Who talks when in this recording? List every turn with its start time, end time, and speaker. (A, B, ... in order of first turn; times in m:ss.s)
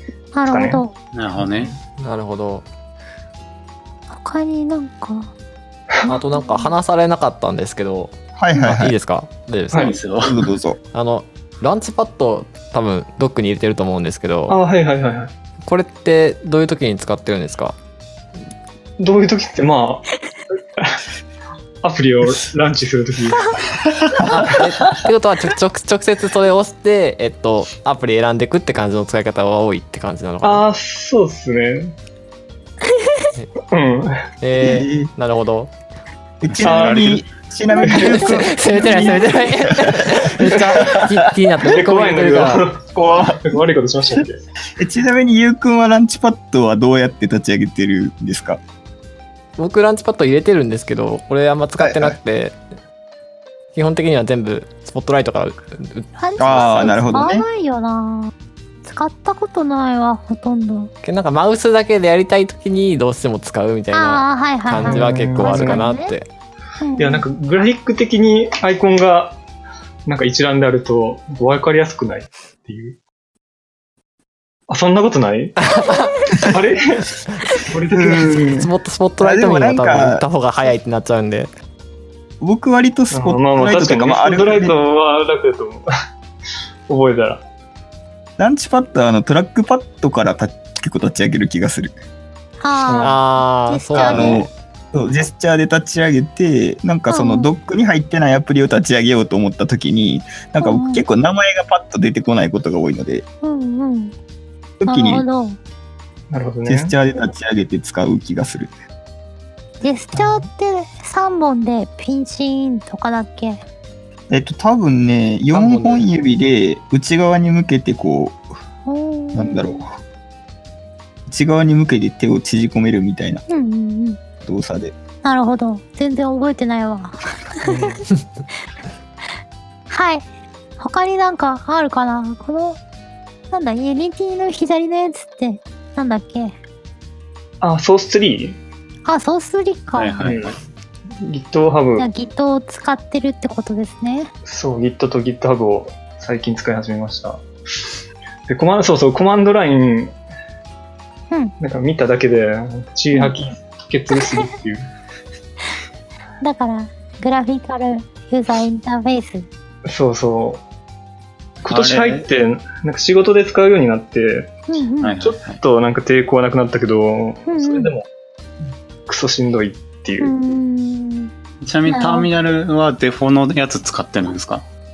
0:00.3-0:00.9 A
0:00.5-0:00.8 B
0:01.1-0:01.7 C
0:01.4-0:01.8 B
0:02.0-0:02.6 D
0:04.1-0:05.3 A
0:06.1-0:06.7 A
0:06.1-0:09.9 D
0:08.4-0:09.0 E
0:09.7-0:10.4 C
0:10.2-0:10.8 E
0:10.9-0:14.6 D
0:14.5-0:15.3 B
0:15.6-0:17.7 D
0:19.0-0:20.1 B
0:21.8-0:23.6 B
0:24.2-0:30.6 D
0:24.3-0:25.0 B
0:30.4-0:31.9 B
0:33.7-0:34.2 B
0:34.4-0:35.7 D
0:34.6-0:35.1 E
0:36.4-0:41.2 E
0:36.6-0:37.2 C
0:36.6-0:37.2 B
0:37.7-0:38.5 A
0:37.9-0:38.2 B
0:37.9-0:42.6 D
0:40.5-0:41.0 B
0:41.6-0:44.4 B
0:42.9-0:43.6 E
0:44.8-0:48.6 E
0:49.6-0:52.6 D
0:51.8-0:52.2 E
0:53.7-0:57.3 D
0:56.2-0:58.3 A
0:56.4-0:57.4 E
0:58.8-1:00.9 A
1:01.0-1:06.3 D
1:03.9-1:06.2 A
1:04.8-1:05.9 B
1:06.8-1:07.2 A
1:07.0-1:09.4 B
1:10.0-1:13.0 B
1:14.7-1:15.6 B
1:15.8-1:16.1 D
1:16.4-1:17.0 B
1:17.6-1:18.6 B
1:17.9-1:18.6 E
1:18.5-1:21.5 D
1:19.2-1:20.2 E
1:22.4-1:24.8 E
1:23.1-1:25.9 B
1:26.9-1:27.4 B
1:28.4-1:31.9 E
1:32.6-1:34.4 A
1:33.0-1:34.5 D
1:33.9-1:43.2 E
1:37.1-1:37.5 A
1:40.6-1:41.0 A
1:43.4-1:44.1 A
1:44.8-1:45.2 E
1:44.8-1:45.6 A
1:46.3-1:46.9 B
1:46.7-1:48.7 E
1:49.8-1:53.6 A
1:50.2-1:50.4 B
1:54.3-1:58.4 E
1:55.5-1:56.0 B
1:58.8-1:59.8 A
1:59.3-1:59.9 E
2:01.3-2:03.4 E
2:03.5-2:04.2 A
2:04.4-2:04.9 E
2:05.2-2:08.0 A
2:07.6-2:08.0 B
2:09.9-2:10.2 A
2:10.8-2:12.8 A
2:13.5-2:16.5 A
2:17.6-2:18.6 B
2:19.0-2:20.2 A
2:19.9-2:20.6 C
2:20.2-2:20.5 B
2:21.2-2:22.1 B
2:22.0-2:24.3 A
2:24.4-2:30.2 B
2:31.6-2:34.9 B
2:36.4-2:39.5 A
2:39.8-2:40.6 B
2:41.6-2:44.5 B
2:41.7-2:42.3 C
2:44.7-2:45.2 A
2:45.0-2:45.6 C
2:45.2-2:48.1 B
2:47.5-2:47.9 A
2:49.0-2:50.3 B
2:50.2-2:51.3 A
2:51.6-2:54.6 C
2:51.9-2:52.3 A